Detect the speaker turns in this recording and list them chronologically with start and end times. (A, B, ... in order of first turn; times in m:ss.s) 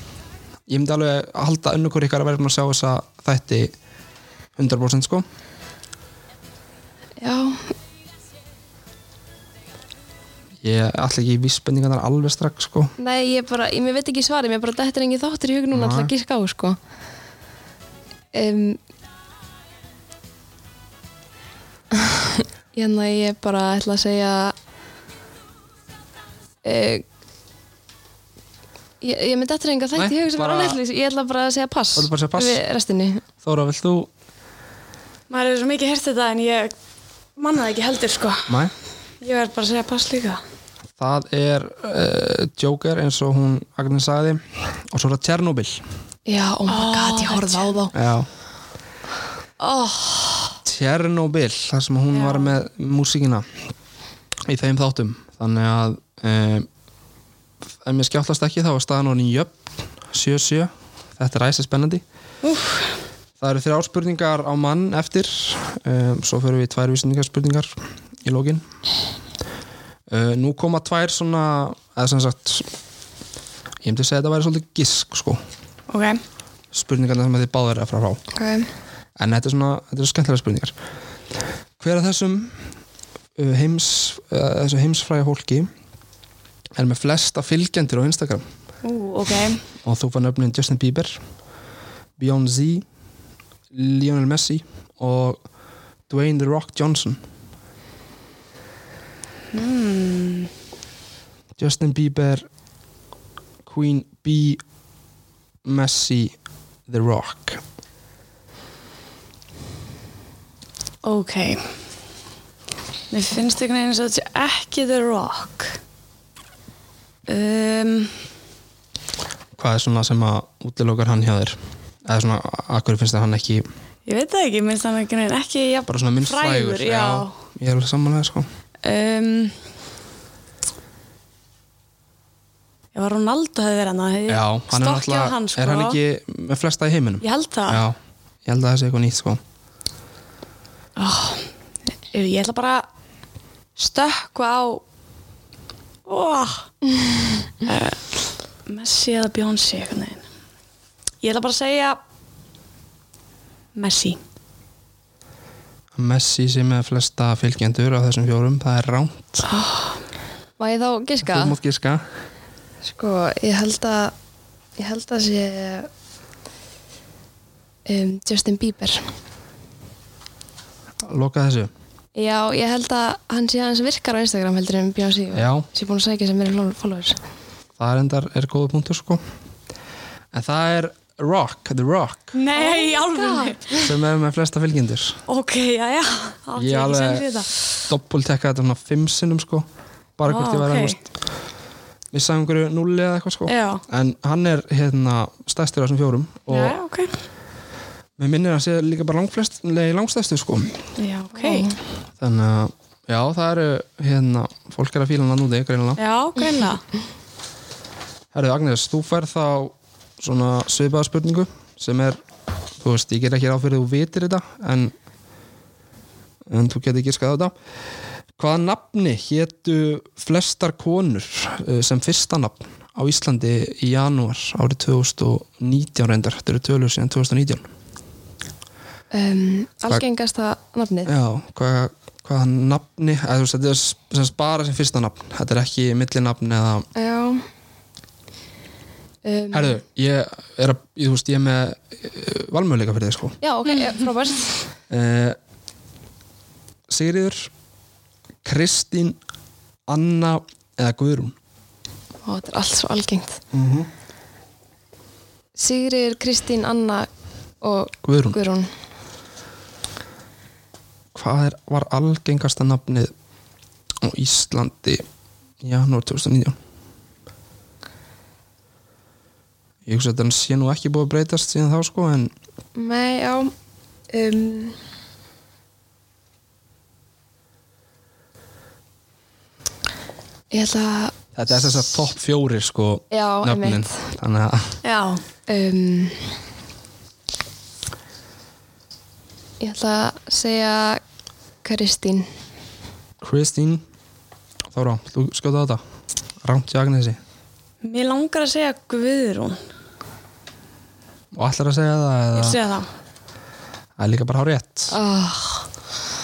0:00.7-0:03.7 A
0:04.6-0:05.2 A
0:07.2-0:07.7 B
0:10.6-0:12.9 A
0:13.0-0:16.8 B
0:15.7-0:16.1 A
0:18.3-0:18.8 B
0:21.9-0:24.5 B
0:26.6-0:27.0 B
0:29.0-0:33.2 B
0:30.0-0:30.8 A
0:32.0-0:32.6 A
0:33.4-0:34.1 A
0:35.3-0:36.7 C
0:37.4-0:38.6 C
0:38.5-0:38.7 A
0:39.2-0:40.4 C
0:41.0-0:45.8 A
0:46.2-0:47.9 B
0:46.7-0:47.8 C
0:47.9-0:48.3 A
0:49.6-0:50.6 C
0:50.6-0:53.4 A
0:52.1-0:52.6 C
0:54.4-0:56.7 A
0:57.8-1:02.0 A
1:02.4-1:02.9 C
1:03.4-1:08.6 A
1:10.1-1:12.7 A
1:13.8-1:15.4 A
1:15.9-1:16.2 C
1:16.7-1:18.2 A
1:18.3-1:18.7 B
1:19.2-1:20.7 A
1:21.8-1:22.6 A
1:23.4-1:25.7 A
1:26.8-1:28.4 A
1:28.8-1:29.6 C
1:29.8-1:31.2 A
1:32.2-1:32.8 A
1:33.7-1:35.4 A
1:36.1-1:37.2 A
1:39.5-1:40.5 C
1:41.6-1:42.4 A
1:43.6-1:44.6 A
1:45.6-1:46.3 A
1:46.9-1:47.6 A
1:51.0-1:51.7 C
1:53.1-1:55.8 C
1:57.3-1:58.1 C
1:59.6-2:03.6 A
2:04.0-2:07.3 C
2:05.9-2:08.5 A
2:08.8-2:09.6 C
2:12.9-2:16.0 C
2:14.3-2:19.4 A
2:17.2-2:17.8 C
2:21.0-2:21.5 C
2:22.1-2:22.9 C
2:23.8-2:24.8 C
2:26.0-2:26.7 C
2:26.9-2:27.5 B
2:27.6-2:30.2 C
2:31.2-2:32.0 C
2:33.7-2:34.2 C
2:36.0-2:39.4 A
2:39.4-2:40.0 C
2:40.6-2:41.6 B
2:41.2-2:42.0 A
2:42.8-2:44.1 B
2:44.8-2:45.9 B
2:47.8-2:49.1 B
2:51.0-2:51.7 A
2:52.1-2:57.2 B
2:55.3-2:55.7 A
2:57.8-2:59.2 A
3:00.3-3:02.3 A
3:02.3-3:03.8 C
3:02.5-3:03.9 B
3:03.8-3:05.2 A
3:05.3-3:07.6 C
3:06.6-3:07.3 A
3:07.9-3:09.6 A
3:10.2-3:11.0 A
3:10.3-3:11.0 C
3:12.1-3:16.7 A
3:13.5-3:13.8 C
3:16.5-3:17.1 C
3:18.2-3:20.8 A
3:21.0-3:21.7 C
3:21.4-3:21.8 B
3:22.2-3:26.0 A
3:26.0-3:26.8 C
3:28.3-3:32.2 A
3:32.8-3:34.9 A
3:36.5-3:37.5 A
3:38.4-3:47.7 A
3:49.1-3:51.1 B
3:51.0-3:56.9 A
3:56.9-3:57.4 B
3:59.2-3:59.8 B
3:59.5-4:03.4 A
4:03.4-4:04.6 B
4:04.9-4:05.4 A
4:06.9-4:07.5 A
4:08.4-4:09.2 A
4:09.9-4:11.3 A
4:12.2-4:13.4 B
4:13.5-4:13.9 A
4:15.6-4:17.1 B
4:17.6-4:18.7 B
4:18.0-4:18.4 A
4:21.1-4:23.1 A
4:24.0-4:25.0 A
4:25.6-4:26.6 A
4:29.8-4:32.3 A
4:32.7-4:33.5 B
4:34.1-4:34.8 B
4:40.5-4:41.2 B
4:41.3-4:44.8 A
4:43.1-4:44.0 B
4:44.8-4:45.2 C
4:45.5-4:46.3 B
4:49.6-4:51.0 B
4:51.6-4:52.3 B
4:53.2-4:53.8 A
4:54.7-4:55.8 A
4:56.4-4:57.2 A
4:57.8-4:59.6 C
5:01.3-5:02.6 A
5:02.3-5:02.9 C
5:04.0-5:05.0 A
5:04.9-5:05.7 B